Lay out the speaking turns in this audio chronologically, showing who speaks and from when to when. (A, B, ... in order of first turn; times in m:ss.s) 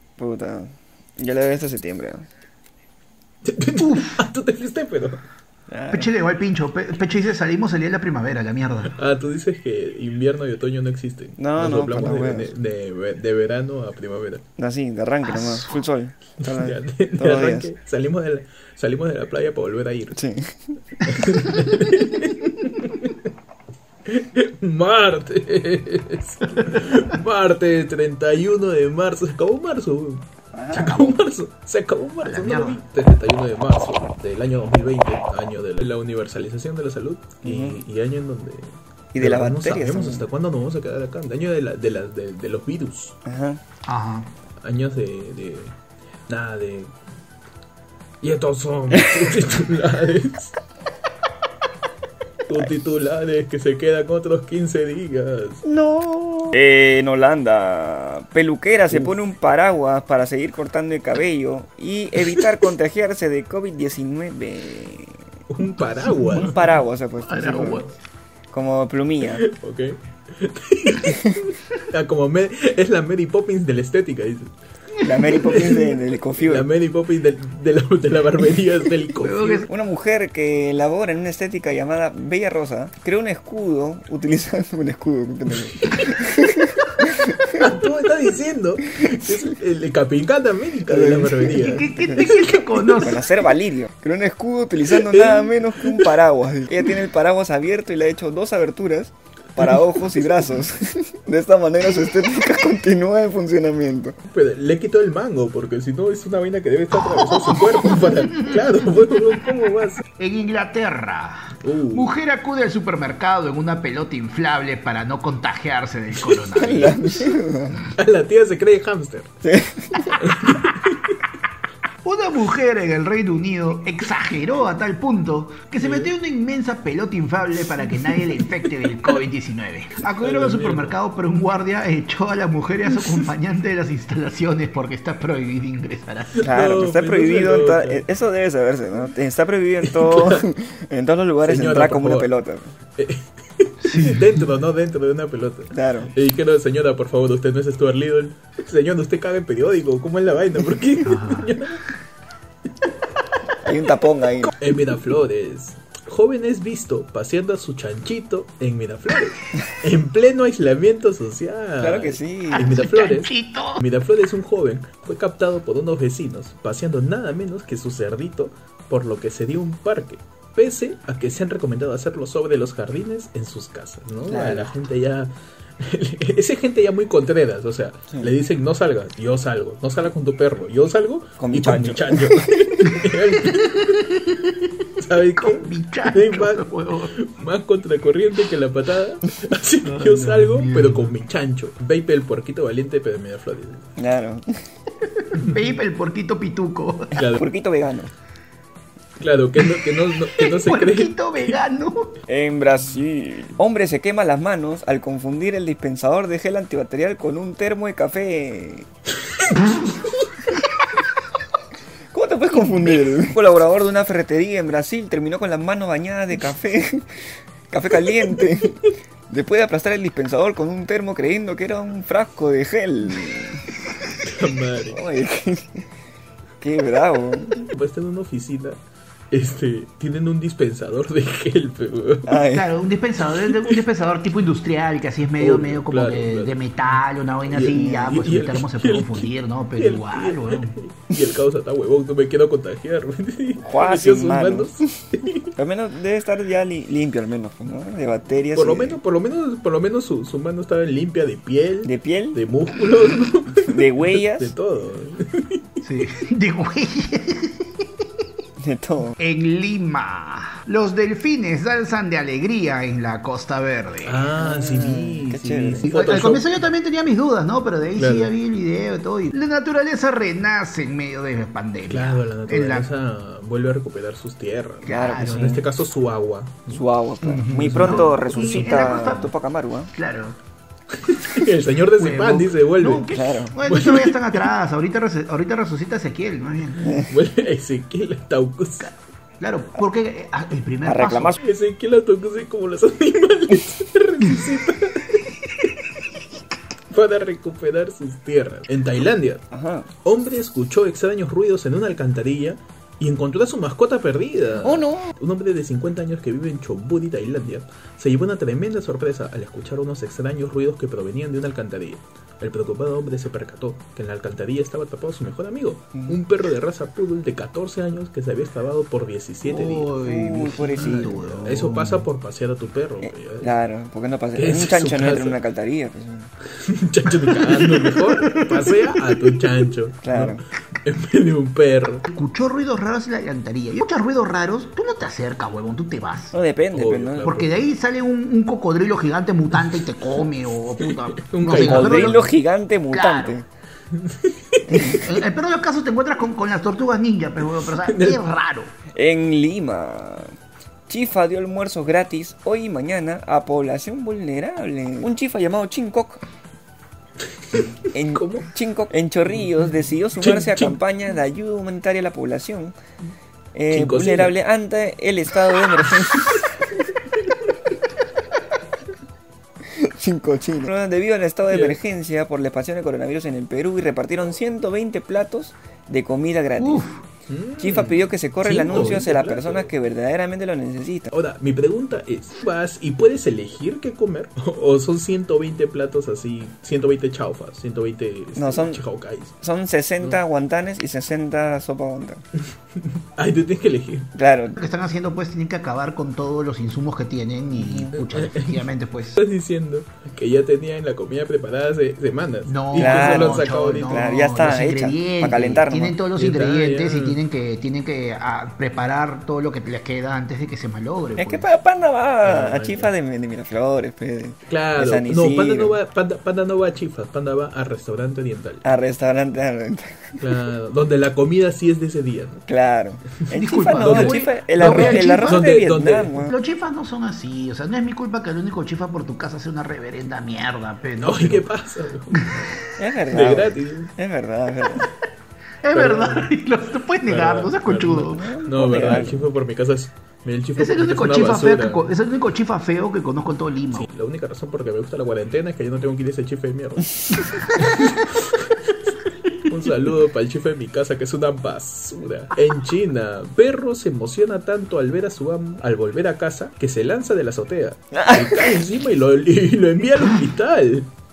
0:00.2-0:02.2 A
0:03.4-0:05.2 B
0:03.8-0:04.2 C
0:05.7-0:06.1 A
0:05.9-0:09.0 C
0:08.9-0:14.4 B
0:11.4-0:12.5 A
0:14.6-0:17.7 A
0:15.2-0:15.8 C
0:16.4-0:20.2 B
0:20.2-0:21.2 A
0:21.0-0:23.2 B
0:24.0-0:43.2 B
0:30.5-0:30.9 A
0:30.7-0:31.2 C
0:32.2-0:32.8 C
0:37.4-0:37.8 A
0:39.1-0:40.2 A
0:43.2-0:43.6 A
0:43.8-0:44.3 C
0:44.6-0:45.8 B
0:46.3-0:47.0 B
0:48.2-0:50.6 B
0:48.9-0:49.3 A
0:52.4-0:55.6 B
0:55.6-1:05.2 A
0:58.9-0:59.2 B
1:02.2-1:02.6 B
1:05.5-1:06.6 B
1:06.0-1:06.7 C
1:06.2-1:07.8 A
1:07.2-1:07.9 C
1:08.5-1:09.4 A
1:09.2-1:14.5 B
1:11.1-1:11.4 A
1:15.0-1:15.7 C
1:15.0-1:16.7 A
1:15.3-1:19.7 B
1:19.1-1:19.7 C
1:19.7-1:27.6 A
1:27.5-1:32.9 B
1:29.0-1:29.2 A
1:30.9-1:32.3 A
1:31.4-1:33.3 C
1:33.0-1:44.2 A
1:34.8-1:36.2 B
1:44.2-1:50.0 B
1:47.2-1:48.5 C
1:50.2-1:57.3 C
1:51.6-1:52.1 B
1:56.5-1:57.8 A
1:57.9-1:59.3 B
1:59.4-2:00.2 A
2:00.2-2:01.2 B
2:02.0-2:16.4 C
2:05.8-2:06.1 B
2:07.9-2:08.2 B
2:10.2-2:11.0 B
2:13.0-2:13.2 B
2:16.3-2:18.0 B
2:16.4-2:22.7 A
2:19.8-2:20.5 B
2:21.4-2:22.3 B
2:23.0-2:31.8 B
2:23.8-2:24.4 C
2:25.7-2:26.1 A
2:31.0-2:31.6 C
2:33.6-2:34.5 A
2:34.5-3:04.4 B
2:41.8-2:42.8 A
2:42.5-2:43.8 C
2:54.3-2:54.7 A
3:01.4-3:02.8 A
3:02.8-3:04.7 C
3:05.0-3:13.9 B
3:05.4-3:07.1 C
3:09.8-3:11.1 C
3:14.0-3:14.6 A
3:15.0-3:17.2 C
3:15.3-3:15.7 B
3:17.1-3:17.4 B
3:17.2-3:18.1 A
3:19.2-3:21.6 B
3:19.6-3:22.2 C
3:22.3-3:28.9 A
3:32.1-3:43.6 A
3:44.2-3:45.0 B
3:44.9-3:45.8 A
3:46.6-3:47.7 A
3:47.6-3:48.8 B
3:49.3-3:52.4 B
3:52.3-3:52.7 A
3:52.5-4:00.8 C
3:53.2-3:53.8 B
3:55.4-3:56.6 B
3:57.5-4:05.5 B
3:57.7-3:58.2 A
4:03.6-4:09.0 A
4:08.5-4:15.8 B
4:11.8-4:12.4 A
4:13.5-4:14.5 A
4:15.8-4:18.0 C
4:18.6-4:19.2 A
4:19.2-4:24.3 C
4:24.0-4:26.6 B
4:24.4-4:26.0 A
4:25.8-4:32.9 C
4:28.0-4:28.3 B
4:31.9-4:36.8 B
4:34.8-4:35.6 C
4:34.9-4:35.6 A
4:36.7-4:39.9 A
4:37.2-4:39.3 C
4:37.8-4:38.6 B
4:40.0-4:40.4 C
4:41.0-4:44.4 B
4:42.0-4:47.1 C
4:43.1-4:43.6 A
4:46.8-4:47.1 A
4:47.1-4:48.9 B
4:49.4-4:51.4 C
4:50.8-4:51.4 A
4:51.4-4:55.3 B
4:56.9-4:59.4 B
4:59.5-4:59.9 A
5:00.0-5:19.9 B
5:04.6-5:05.1 A
5:19.4-5:22.0 C
5:20.0-5:21.4 A
5:20.8-5:23.5 B
5:23.0-5:26.3 A
5:24.3-5:25.4 B
5:26.6-5:32.1 B
5:27.2-5:29.5 C
5:30.0-5:30.4 A
5:32.1-5:36.3 C
5:36.3-5:37.4 A
5:36.7-5:37.6 B
5:37.2-5:42.3 C
5:40.8-5:42.2 B
5:41.5-5:43.4 A
5:42.9-5:43.4 C
5:43.9-5:45.2 B
5:44.7-5:45.0 A
5:44.7-5:48.7 C
5:47.4-5:48.4 B
5:48.9-5:50.4 A
5:50.9-5:56.2 A
5:57.5-5:58.5 B
5:57.9-6:02.7 A
6:00.2-6:00.8 B
6:03.5-6:06.9 A
6:03.7-6:04.3 B
6:05.8-6:06.4 B
6:09.6-6:16.8 A
6:11.5-6:11.8 B
6:16.6-6:17.0 C
6:17.3-6:19.7 B
6:17.6-6:21.1 A
6:21.1-6:29.3 B
6:28.4-6:28.8 A
6:29.4-6:32.2 A
6:32.8-6:34.1 B
6:34.1-6:34.6 A
6:34.6-6:39.2 C
6:37.6-6:37.9 A
6:37.9-6:44.1 B
6:42.5-6:51.5 C
6:42.8-6:46.0 A
6:46.1-6:47.2 B
6:51.2-6:55.7 A
6:52.2-6:52.9 B
6:54.5-6:58.7 B
6:58.6-7:00.2 A
7:00.2-7:02.4 B
7:02.5-7:06.3 A
7:03.3-7:05.4 C
7:03.7-7:06.2 B
7:06.2-7:11.5 C
7:11.0-7:13.9 B
7:12.1-7:12.6 C
7:12.8-7:14.9 A
7:15.6-7:18.3 C
7:15.7-7:16.3 B
7:17.0-7:21.9 B
7:17.8-7:19.3 A
7:20.6-7:23.8 C
7:23.7-7:28.9 B
7:29.4-7:40.9 B
7:37.9-7:38.6 A